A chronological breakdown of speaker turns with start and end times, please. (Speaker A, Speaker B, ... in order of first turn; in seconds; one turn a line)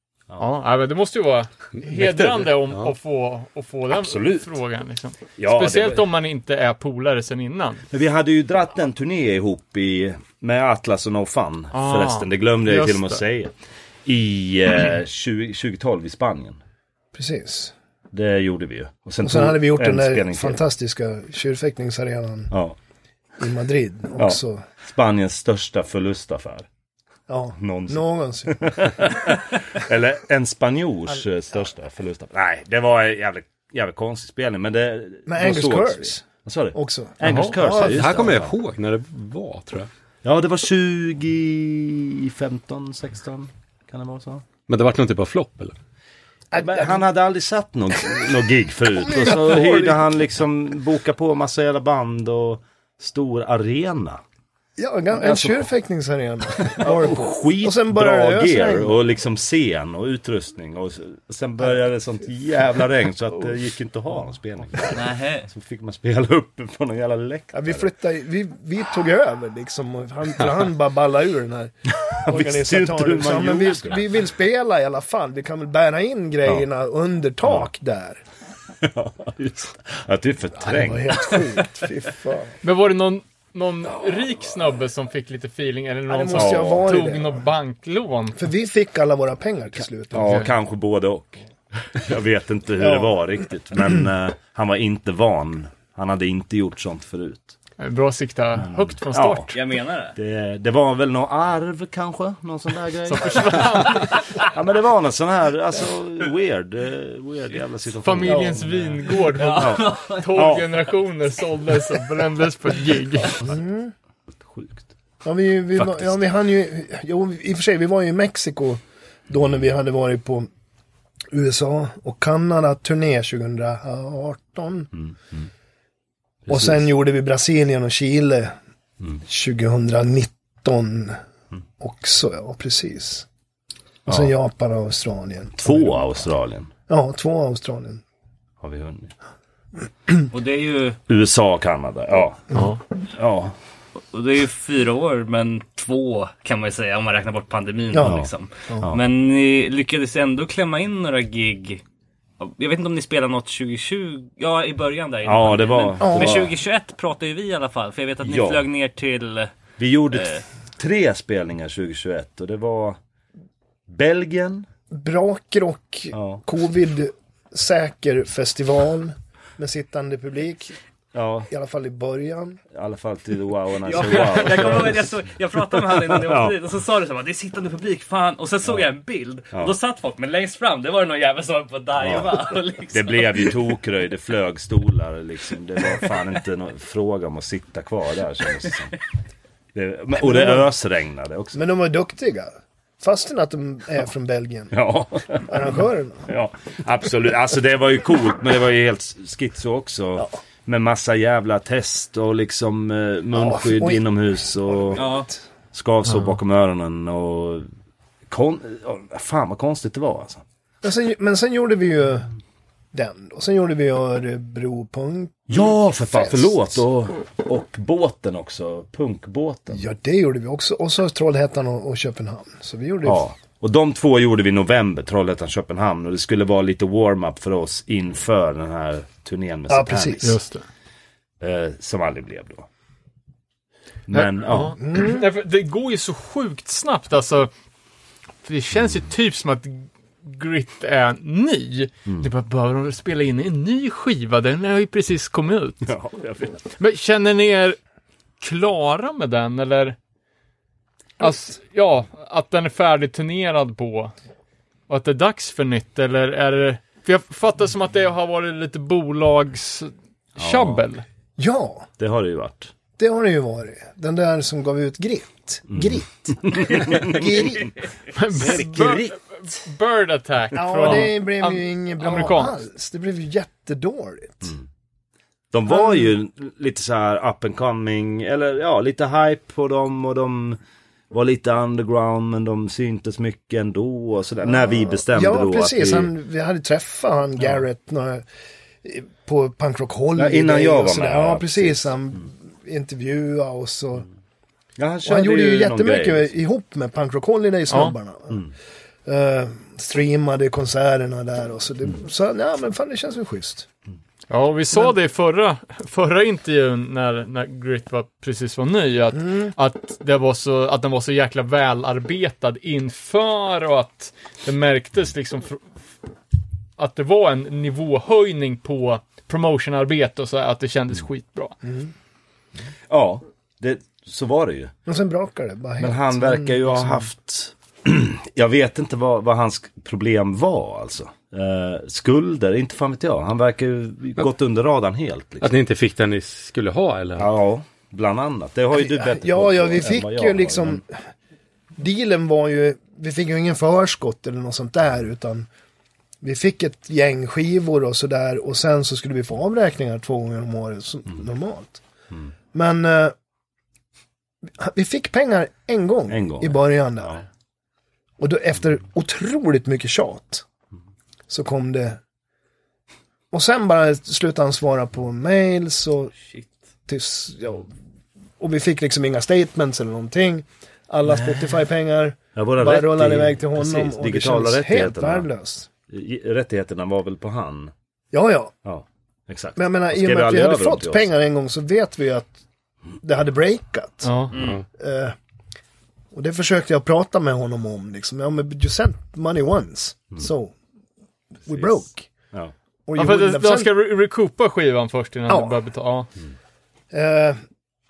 Speaker A: 0.4-7.8
Speaker B: 1.8-2.9
Speaker C: 3.9-4.5
Speaker C: 5.4-6.0
Speaker C: 7.9-13.5
Speaker A: 11.7-13.2
Speaker C: 14.0-16.6
Speaker D: 17.1-17.7
Speaker C: 18.1-20.6
Speaker D: 19.2-22.5
Speaker C: 22.5-22.8
Speaker D: 23.4-24.6
Speaker C: 24.2-26.7
Speaker D: 27.3-28.7
Speaker C: 27.6-38.5
Speaker D: 35.2-38.2
Speaker A: 37.2-37.5
Speaker B: 37.6-39.9
Speaker C: 40.2-44.5
Speaker B: 44.7-45.7
Speaker D: 46.5-47.0
Speaker C: 46.6-54.2
Speaker D: 49.0-50.0
Speaker D: 54.8-59.0
Speaker C: 55.1-55.6
Speaker C: 56.6-67.9
Speaker E: 64.9-65.5
Speaker D: 67.5-78.2
Speaker C: 71.9-74.0
Speaker C: 78.8-81.6
Speaker D: 80.6-82.6
Speaker A: 82.6-88.4
Speaker D: 86.1-87.5
Speaker C: 86.3-86.9
Speaker D: 88.3-90.5
Speaker C: 90.1-97.5
Speaker D: 92.8-93.1
Speaker A: 97.8-99.6
Speaker C: 98.6-99.5
Speaker E: 99.5-100.1
Speaker C: 100.1-110.7
Speaker A: 103.0-104.2
Speaker A: 108.0-113.4
Speaker E: 109.3-110.6
Speaker D: 113.4-113.9
Speaker C: 114.5-114.9
Speaker D: 115.2-120.5
Speaker C: 115.8-116.1
Speaker D: 121.3-124.9
Speaker C: 125.0-125.5
Speaker C: 126.5-126.8
Speaker D: 126.5-128.5
Speaker D: 129.2-131.2
Speaker D: 131.8-133.2
Speaker D: 134.1-136.3
Speaker C: 135.6-136.7
Speaker D: 136.9-138.0
Speaker C: 138.6-139.1
Speaker E: 140.3-141.0
Speaker C: 141.1-142.6
Speaker C: 143.1-143.5
Speaker E: 144.1-151.8
Speaker D: 147.9-148.9
Speaker C: 148.0-148.3
Speaker E: 152.4-159.5
Speaker C: 155.2-156.5
Speaker D: 156.0-156.5
Speaker C: 158.2-158.6
Speaker C: 159.8-163.0
Speaker E: 160.1-160.4
Speaker C: 163.9-164.7
Speaker D: 164.9-170.7
Speaker C: 166.1-166.4
Speaker C: 171.1-171.5
Speaker D: 171.5-172.6
Speaker C: 172.7-175.1
Speaker E: 173.8-183.5
Speaker C: 175.8-176.5
Speaker C: 182.0-188.9
Speaker C: 189.7-191.6
Speaker D: 190.2-190.7
Speaker D: 191.5-194.7
Speaker C: 194.7-195.6
Speaker D: 195.5-196.3
Speaker C: 196.3-205.0
Speaker D: 203.3-205.4
Speaker E: 204.9-205.3
Speaker C: 205.7-207.7
Speaker C: 208.3-210.4
Speaker D: 210.8-212.3
Speaker D: 212.9-216.8
Speaker C: 215.5-219.8
Speaker D: 219.7-223.2
Speaker C: 223.0-230.3
Speaker D: 229.7-230.4
Speaker A: 230.2-230.6
Speaker C: 231.4-232.7
Speaker C: 234.1-234.8
Speaker A: 234.1-237.5
Speaker D: 234.8-235.2
Speaker A: 238.4-245.9
Speaker C: 245.8-246.6
Speaker A: 246.8-247.8
Speaker A: 248.4-250.0
Speaker A: 251.2-254.1
Speaker A: 254.9-261.0
Speaker C: 260.4-260.8
Speaker D: 261.4-261.9
Speaker C: 262.0-262.7
Speaker D: 263.0-267.7
Speaker C: 265.7-267.7
Speaker A: 268.1-272.6
Speaker C: 268.3-269.2
Speaker D: 270.5-274.5
Speaker C: 275.5-280.6
Speaker D: 275.7-276.1
Speaker C: 281.1-286.1
Speaker D: 284.4-288.2
Speaker D: 288.8-294.1
Speaker C: 290.1-291.9
Speaker C: 294.8-296.3
Speaker D: 295.0-298.5
Speaker A: 297.7-297.9
Speaker D: 299.0-303.7
Speaker A: 304.3-315.6
Speaker D: 309.2-309.5
Speaker A: 316.8-321.6
Speaker D: 321.6-321.9
Speaker C: 322.9-324.7
Speaker D: 324.9-327.1
Speaker C: 325.8-335.5
Speaker B: 335.4-337.3
Speaker C: 337.1-340.8
Speaker D: 338.7-341.0
Speaker D: 341.8-345.5
Speaker D: 346.2-351.8
Speaker D: 352.5-353.1
Speaker D: 354.6-357.2
Speaker C: 356.1-357.2
Speaker D: 358.2-360.4
Speaker D: 361.3-362.0
Speaker D: 363.3-366.1
Speaker D: 366.9-367.7
Speaker D: 368.4-375.7
Speaker C: 371.0-371.6
Speaker C: 372.3-375.2
Speaker C: 375.9-377.7
Speaker D: 378.1-378.5
Speaker C: 378.6-381.1
Speaker D: 379.6-382.4
Speaker D: 383.0-384.2
Speaker A: 384.0-384.3
Speaker E: 384.3-384.6
Speaker D: 384.7-385.1
Speaker D: 386.1-390.5
Speaker D: 391.4-392.1
Speaker D: 392.9-393.7
Speaker A: 393.0-396.1
Speaker D: 395.3-395.6
Speaker D: 396.9-397.4